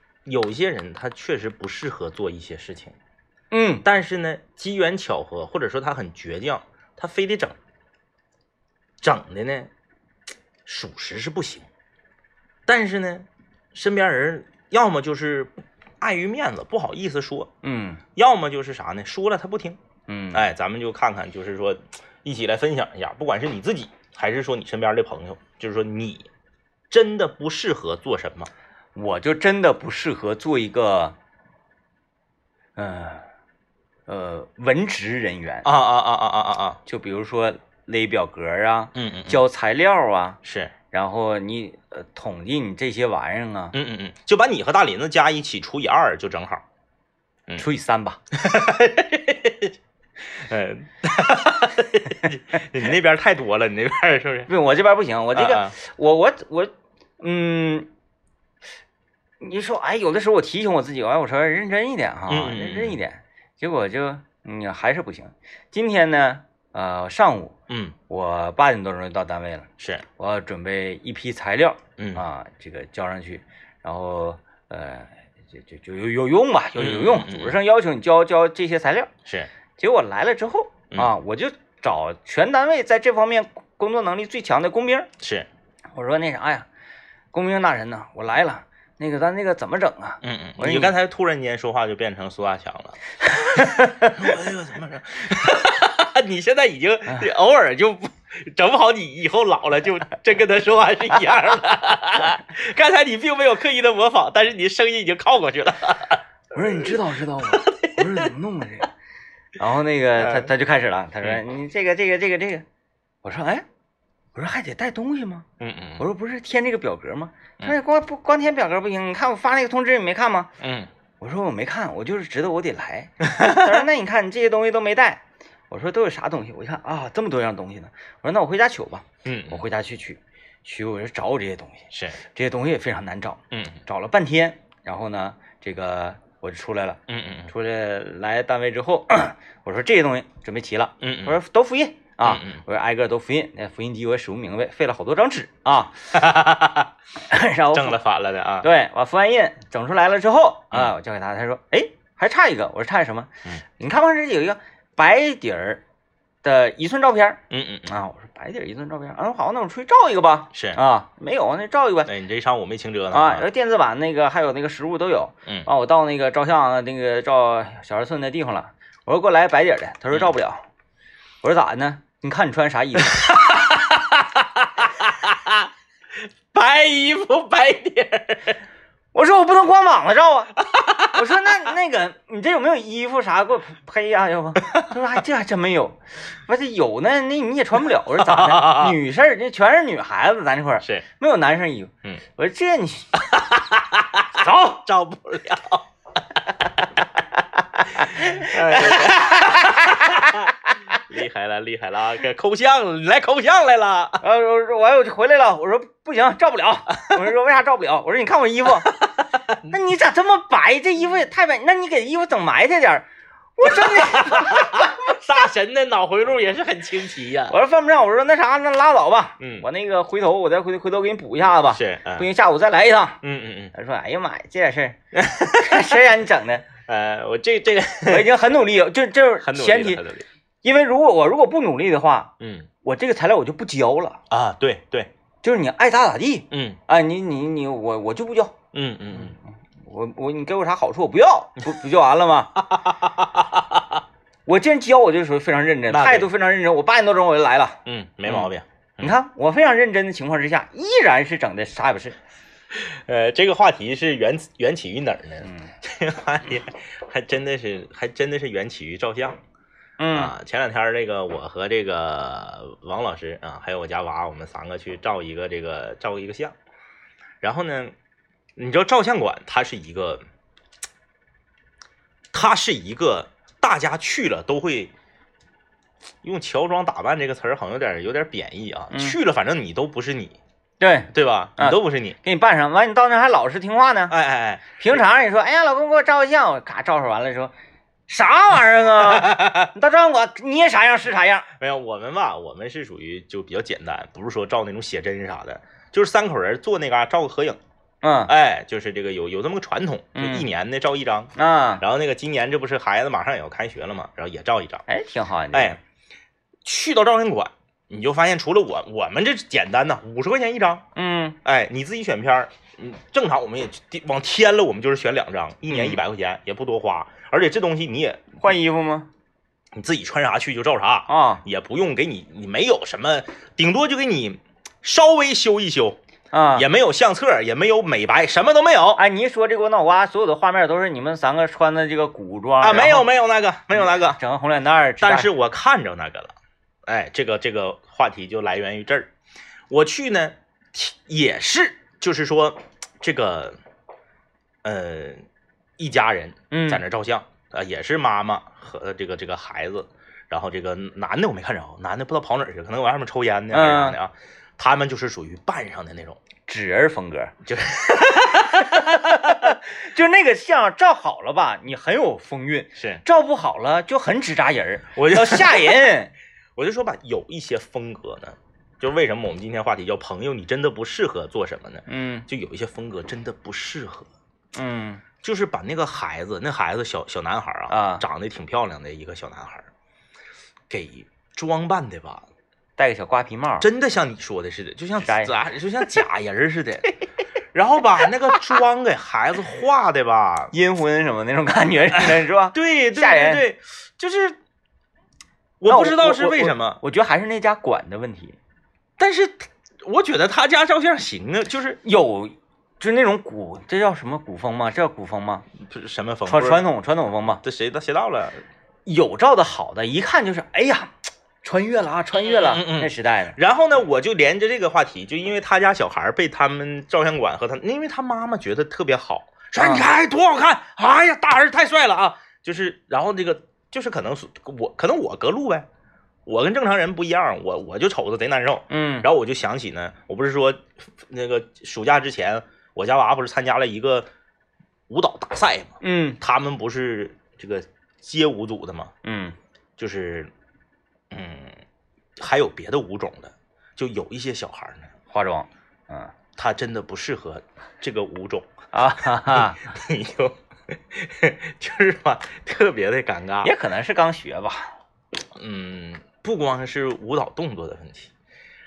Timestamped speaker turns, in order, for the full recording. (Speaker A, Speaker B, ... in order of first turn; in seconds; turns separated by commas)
Speaker A: 0.2-2.9, Speaker B: 3.5-3.8, Speaker A: 3.8-7.6, Speaker A: 9.0-9.7, Speaker A: 10.7-11.7, Speaker A: 12.7-17.5, Speaker B: 17.6-18.0, Speaker A: 18.1-19.8, Speaker B: 20.1-20.5, Speaker A: 20.3-26.3, Speaker A: 26.9-28.5, Speaker B: 28.9-31.1, Speaker B: 32.8-33.2, Speaker B: 34.1-35.7, Speaker A: 35.6-36.8, Speaker B: 36.9-40.4, Speaker A: 38.9-39.4, Speaker A: 40.4-40.7, Speaker B: 40.9-43.8, Speaker A: 43.7-46.6, Speaker B: 47.6-48.2, Speaker A: 48.3-49.7, Speaker A: 50.3-54.5, Speaker B: 54.5-57.9, Speaker A: 55.3-55.7, Speaker B: 59.4-67.5, Speaker A: 62.3-63.0, Speaker A: 67.7-68.0, Speaker B: 68.1-79.1, Speaker A: 72.0-72.2, Speaker A: 76.8-77.6, Speaker B: 79.8-85.1, Speaker A: 85.2-85.5, Speaker B: 85.9-86.7, Speaker B: 87.3-90.9, Speaker A: 90.2-93.0, Speaker B: 93.4-94.2, Speaker A: 93.5-108.3, Speaker B: 106.5-108.9, Speaker B: 109.6-112.6, Speaker A: 110.2-110.5, Speaker B: 113.2-113.6, Speaker B: 114.3-115.5, Speaker A: 115.6-116.0, Speaker B: 116.0-120.5, Speaker A: 120.6-120.9, Speaker B: 121.2-146.1, Speaker A: 123.3-123.8, Speaker A: 129.2-129.6, Speaker A: 131.9-132.2, Speaker A: 133.5-133.8, Speaker A: 137.1-137.5, Speaker A: 141.0-141.4, Speaker A: 142.2-142.6, Speaker A: 146.1-146.9, Speaker B: 147.3-148.0, Speaker A: 147.7-148.7, Speaker B: 148.6-155.8, Speaker B: 156.4-162.1, Speaker A: 157.5-157.9, Speaker A: 160.5-160.8, Speaker A: 162.1-163.4, Speaker B: 163.1-170.6, Speaker B: 171.4-173.3, Speaker A: 173.1-175.7, Speaker A: 176.5-178.6, Speaker B: 179.1-193.3, Speaker A: 180.6-181.2, Speaker A: 188.2-189.0, Speaker A: 193.3-195.8, Speaker B: 197.8-200.9, Speaker A: 198.0-204.2, Speaker B: 204.2-208.9, Speaker A: 208.8-209.7, Speaker B: 209.7-213.1, Speaker B: 213.6-215.1, Speaker A: 213.6-217.6, Speaker B: 217.5-223.2, Speaker A: 219.4-219.7, Speaker A: 221.7-222.3, Speaker A: 223.2-223.7, Speaker B: 223.7-226.7, Speaker A: 225.1-226.0, Speaker A: 226.8-228.3, Speaker B: 228.1-230.0, Speaker A: 229.4-230.2, Speaker B: 230.6-234.2, Speaker A: 232.4-232.7, Speaker A: 234.3-235.1, Speaker B: 235.4-238.5, Speaker A: 236.5-236.8, Speaker A: 238.7-239.3, Speaker B: 239.8-242.6, Speaker A: 242.7-244.0, Speaker B: 244.4-248.5, Speaker A: 245.9-246.3, Speaker A: 247.8-249.1, Speaker B: 249.0-252.2, Speaker A: 252.7-259.4, Speaker B: 255.4-255.7, Speaker B: 260.0-260.3, Speaker A: 260.1-266.5, Speaker A: 267.4-267.9, Speaker A: 268.6-270.2, Speaker A: 272.3-274.9, Speaker A: 276.2-280.4, Speaker B: 278.9-279.2, Speaker B: 280.8-284.1, Speaker A: 281.1-282.2, Speaker A: 284.1-285.0, Speaker B: 284.8-287.5, Speaker B: 288.1-291.5, Speaker A: 289.0-289.7, Speaker A: 291.6-297.6, Speaker B: 298.0-298.3, Speaker A: 298.3-304.8, Speaker B: 300.1-300.5, Speaker B: 301.4-301.8, Speaker B: 304.9-305.8, Speaker A: 305.5-305.8, Speaker A: 306.6-310.8, Speaker B: 310.9-311.4, Speaker A: 311.4-318.4, Speaker B: 315.7-316.0, Speaker B: 318.4-319.1, Speaker A: 319.7-326.0, Speaker B: 321.1-321.4, Speaker B: 326.3-326.6, Speaker A: 326.5-329.0, Speaker B: 328.9-333.1, Speaker A: 332.6-334.2, Speaker B: 333.7-335.3, Speaker A: 335.0-336.3, Speaker A: 336.9-339.1, Speaker A: 339.7-343.6, Speaker A: 344.6-345.2, Speaker A: 345.8-356.2, Speaker B: 346.5-346.8, Speaker B: 353.5-354.0, Speaker B: 356.5-357.3, Speaker A: 357.4-359.6, Speaker B: 358.4-366.1, Speaker A: 362.8-363.0, Speaker A: 364.9-365.9, Speaker A: 366.6-374.1, Speaker B: 371.9-372.2, Speaker B: 374.5-375.0, Speaker A: 375.2-379.7, Speaker B: 377.7-378.0, Speaker A: 380.7-382.2, Speaker B: 382.8-383.7, Speaker A: 383.6-387.0, Speaker B: 385.0-385.3, Speaker A: 387.5-390.5, Speaker B: 390.5-393.4, Speaker A: 391.9-394.4, Speaker A: 395.6-396.8, Speaker B: 395.7-398.4, Speaker A: 399.0-401.8, Speaker B: 401.8-405.4, Speaker A: 405.6-406.6, Speaker B: 406.3-407.4, Speaker A: 407.4-408.4, Speaker B: 408.9-413.4, Speaker A: 412.2-425.6, Speaker B: 419.6-419.9, Speaker A: 426.2-434.1, Speaker B: 428.7-429.1, Speaker A: 434.9-438.9, Speaker B: 435.8-436.2, Speaker B: 439.0-439.4, Speaker A: 439.8-440.3, Speaker A: 441.1-441.6, Speaker A: 442.2-444.9, Speaker B: 445.1-446.1, Speaker A: 446.4-453.5, Speaker B: 448.7-449.7, Speaker B: 453.4-454.7, Speaker A: 455.4-458.1